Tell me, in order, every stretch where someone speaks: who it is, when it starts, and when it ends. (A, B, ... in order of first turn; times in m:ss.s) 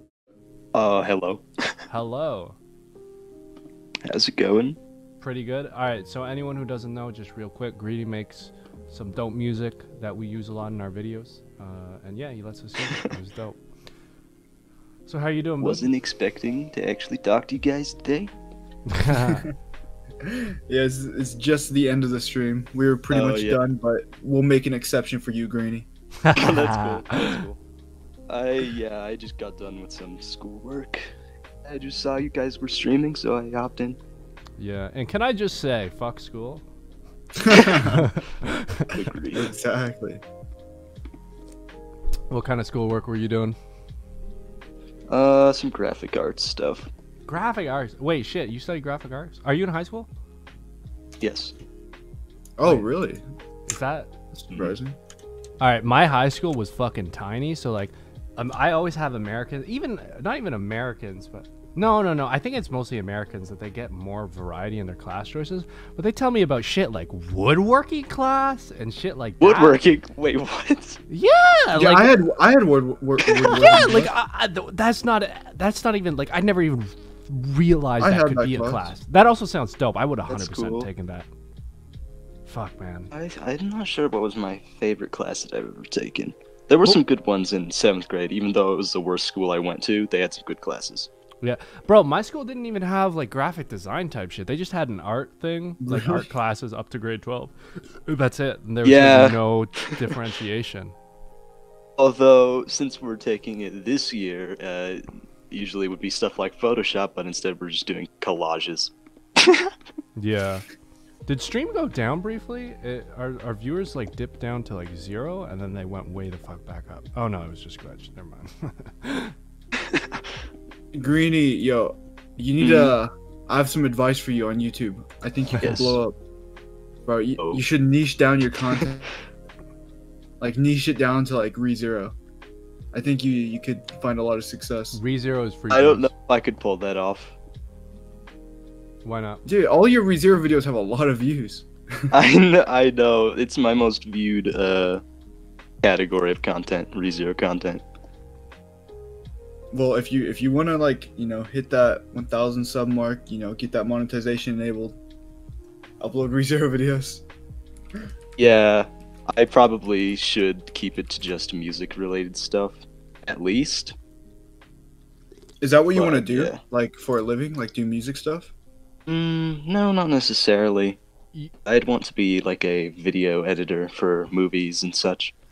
0:00.7-0:01.7 A
0:01.9-0:02.6 B
0:04.1-0:04.8 A
0:05.2-0:13.6 B
0:15.0-0:15.9 B
0:15.6-0:18.3 A
0:18.9-0:19.4 B
0:19.1-0:19.5 C
0:20.2-0:25.9 C
0:23.1-0:23.6 A
0:26.2-0:27.4 B
0:26.3-0:27.6 A
0:28.3-0:31.1 A
0:31.6-0:34.0 A
0:34.6-0:36.6 B
0:37.4-0:38.0 C
0:37.8-0:38.9 B
0:38.9-0:39.5 A
0:39.3-0:40.2 C
0:42.3-0:43.6 B
0:45.1-0:46.9 A
0:47.3-0:50.1 B
0:51.2-0:51.5 A
0:52.6-0:53.2 C
0:52.6-0:52.9 B
0:53.7-0:54.5 B
0:54.5-0:55.0 C
0:55.6-1:09.8 B
1:09.4-1:11.0 A
1:11.1-1:12.3 B
1:11.8-1:14.1 C
1:13.5-1:21.3 B
1:18.0-1:18.9 C
1:20.3-1:20.9 A
1:22.4-1:23.1 B
1:23.1-1:31.1 A
1:31.4-1:37.6 B
1:35.8-1:36.3 C
1:38.0-1:40.9 B
1:38.8-1:39.4 A
1:42.0-1:49.7 A
1:50.2-1:50.7 B
1:51.3-1:59.3 B
2:00.9-2:06.2 C
2:02.6-2:03.0 A
2:05.6-2:06.0 A
2:07.0-2:09.1 C
2:10.4-2:12.1 C
2:12.9-2:15.0 C
2:14.9-2:16.1 B
2:15.7-2:17.4 A
2:19.0-2:19.4 B
2:19.4-2:22.1 C
2:22.1-2:25.0 A
2:25.8-2:27.8 A
2:29.7-2:35.0 C
2:36.0-2:37.2 C
2:38.4-2:43.9 A
2:45.6-2:48.5 C
2:45.9-2:46.6 A
2:49.1-2:51.0 A
2:51.6-2:55.3 A